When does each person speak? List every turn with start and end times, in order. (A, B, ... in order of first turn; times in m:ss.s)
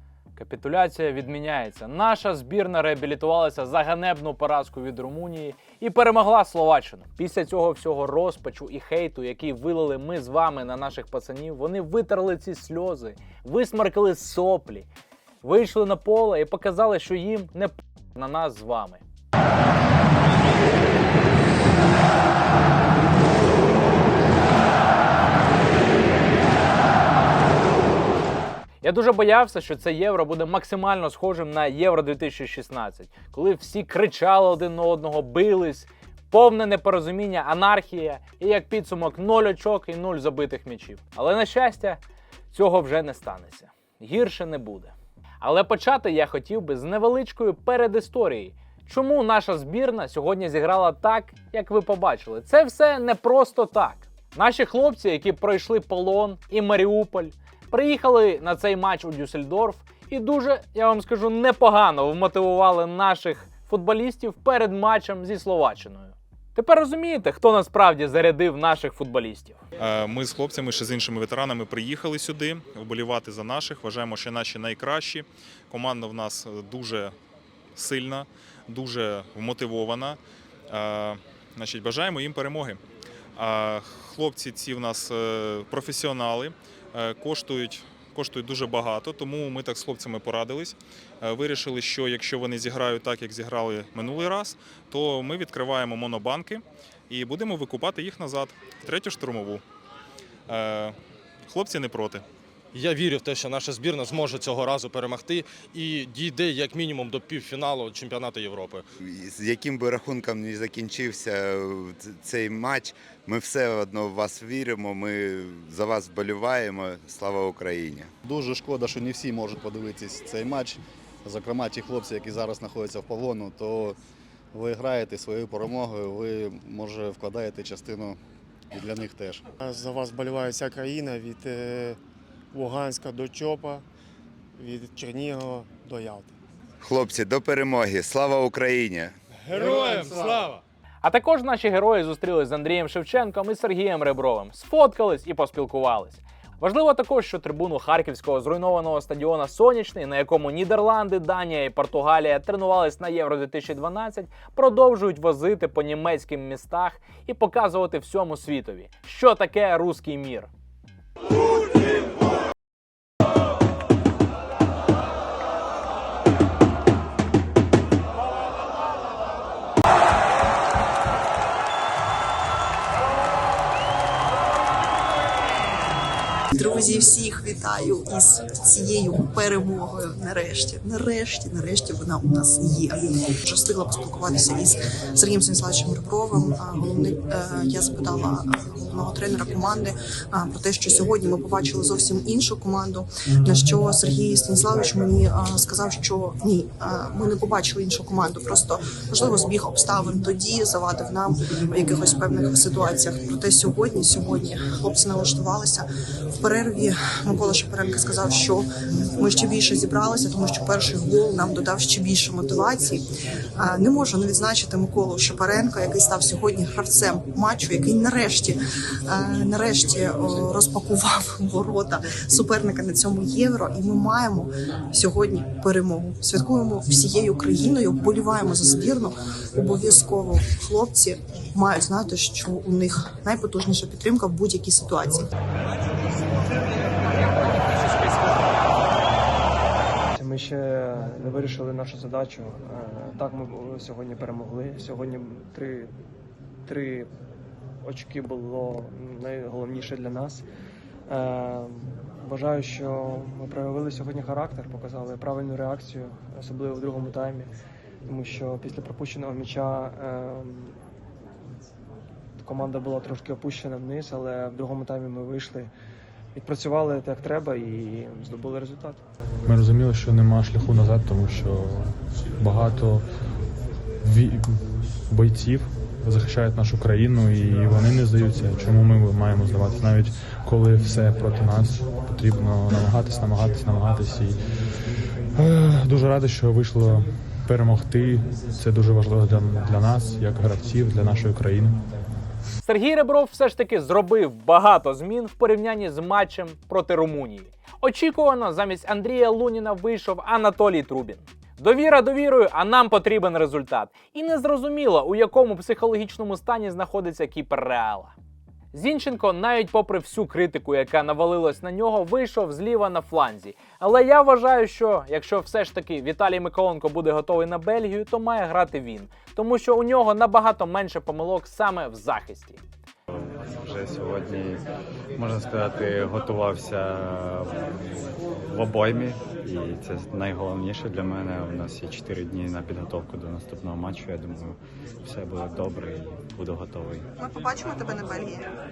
0:00.4-0:14.9 A
0:15.4-0:19.0 A
0:28.8-0:42.0 A
0:42.5-1:09.6 A
1:09.8-1:17.1 B
1:17.8-1:20.2 B
1:20.7-1:22.8 B
1:23.4-1:39.6 B
1:40.5-1:41.0 B
1:41.5-1:42.2 B
1:42.7-1:48.9 C
1:49.0-1:58.1 D
1:58.2-2:04.0 E
2:04.5-2:08.2 E
2:08.7-2:09.4 E
2:09.6-2:12.0 F
2:12.5-2:13.8 F
2:14.6-2:16.3 F
2:16.8-2:19.1 D
2:19.5-2:20.5 F
2:19.8-2:20.6 C
2:21.0-2:40.5 A
2:56.5-3:33.0 G
3:33.6-3:55.2 G
4:00.1-4:05.9 H
4:06.6-4:07.1 H
4:07.8-4:10.4 H
4:11.1-4:17.5 H
4:18.0-4:20.8 H
4:22.4-4:25.7 H
4:26.4-4:29.0 H
4:29.4-4:33.0 I
4:34.0-4:34.4 I
4:35.1-4:44.4 I
4:45.3-4:51.8 I
4:52.6-5:08.1 A
5:08.7-5:22.6 A
5:23.1-5:24.6 J
5:25.2-5:27.7 J
5:28.5-5:37.1 J
5:37.2-5:38.5 G